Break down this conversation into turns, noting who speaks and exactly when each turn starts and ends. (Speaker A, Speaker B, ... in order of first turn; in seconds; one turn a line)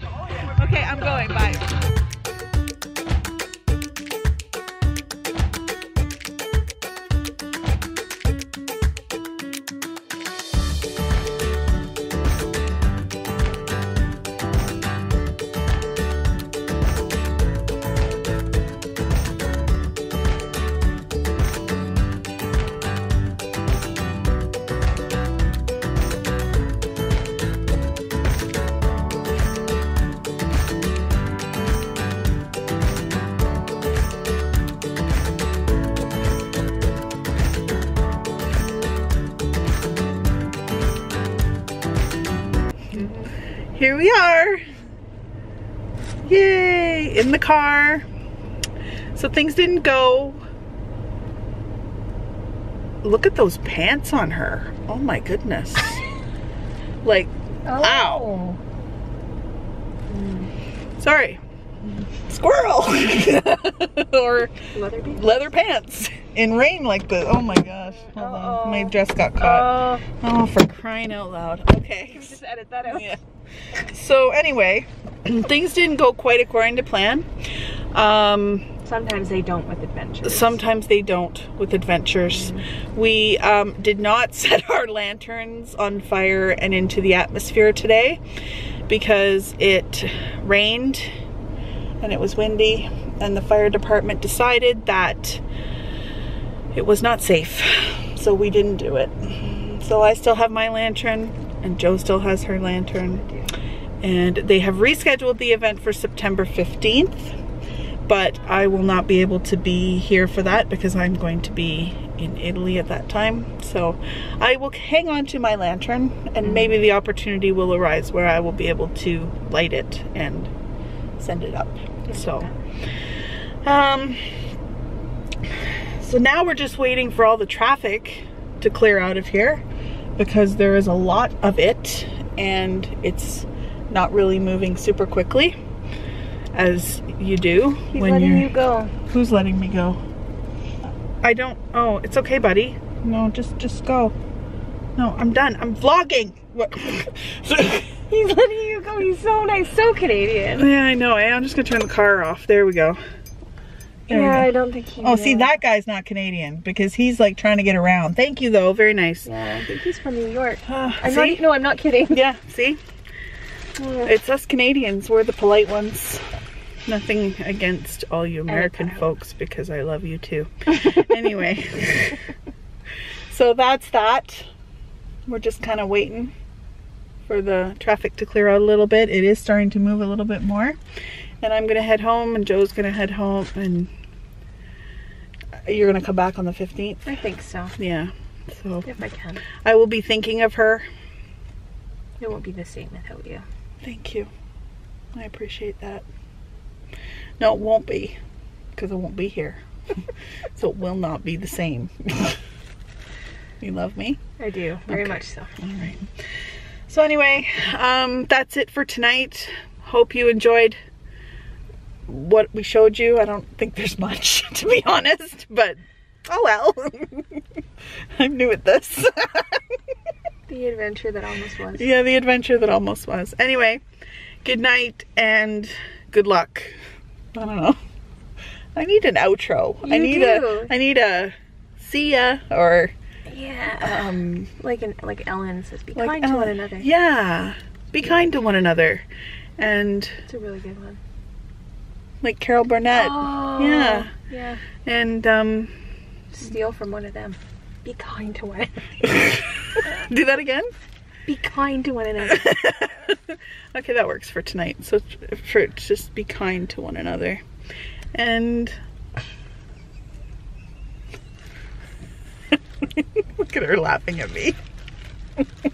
Speaker A: 0.4-1.7
Speaker B: 42.9-43.2
Speaker A: 43.7-44.6
Speaker A: 46.2-48.0
Speaker A: 49.1-50.4
Speaker A: 53.0-56.0
Speaker A: 57.0-58.3
Speaker B: 57.7-58.6
Speaker B: 60.1-60.5
Speaker A: 61.0-61.4
Speaker A: 62.1-72.3
Speaker B: 64.7-65.5
Speaker B: 68.0-70.0
Speaker B: 72.1-73.1
Speaker A: 72.9-73.2
Speaker A: 73.7-78.7
Speaker B: 78.8-80.6
Speaker A: 80.2-88.2
Speaker B: 82.3-82.7
Speaker A: 88.9-91.1
Speaker A: 92.0-95.4
Speaker A: 96.7-103.2
Speaker A: 104.0-107.4
Speaker A: 108.1-120.5
Speaker A: 121.2-122.5
Speaker B: 122.1-122.5
Speaker A: 123.6-124.5
Speaker A: 125.4-129.6
Speaker A: 130.2-135.6
Speaker A: 136.5-138.5
Speaker B: 137.9-138.9
Speaker A: 139.1-140.0
Speaker A: 141.2-144.1
Speaker A: 145.0-148.0
Speaker B: 148.1-150.7
Speaker A: 150.5-153.0
Speaker A: 154.1-154.5
Speaker B: 154.1-155.5
Speaker A: 155.0-159.3
Speaker B: 159.2-162.2
Speaker A: 160.6-161.4
Speaker A: 162.1-162.8
Speaker B: 163.8-164.1
Speaker A: 164.0-166.2
Speaker A: 166.8-172.2
Speaker B: 168.5-169.0
Speaker A: 173.3-174.5
Speaker A: 175.3-176.3
Speaker A: 177.2-180.8
Speaker A: 181.4-183.9
Speaker A: 185.6-187.1
Speaker B: 187.1-187.7
Speaker A: 187.8-188.9
Speaker B: 188.8-189.4
Speaker A: 189.6-190.8
Speaker B: 192.2-193.4
Speaker A: 193.8-194.3
Speaker A: 195.1-196.1
Speaker A: 197.4-198.2
Speaker A: 198.7-199.6
Speaker A: 200.5-202.4
Speaker A: 203.6-204.2
Speaker B: 204.4-205.5
Speaker A: 204.9-206.1
Speaker A: 206.9-210.8
Speaker A: 212.1-217.4
Speaker A: 218.1-219.6
Speaker B: 220.5-221.8
Speaker A: 221.8-223.8
Speaker A: 224.4-226.8
Speaker A: 227.3-227.8
Speaker A: 228.7-232.9
Speaker B: 229.8-230.7
Speaker B: 233.3-236.9
Speaker A: 233.8-234.5
Speaker A: 235.9-239.0
Speaker A: 239.6-240.2
Speaker B: 240.3-241.0
Speaker A: 242.2-244.1
Speaker B: 242.9-244.6
Speaker A: 244.8-245.7
Speaker B: 246.3-249.2
Speaker A: 249.1-250.7
Speaker B: 251.3-252.6
Speaker A: 252.3-257.4
Speaker A: 258.1-258.7
Speaker A: 262.8-264.6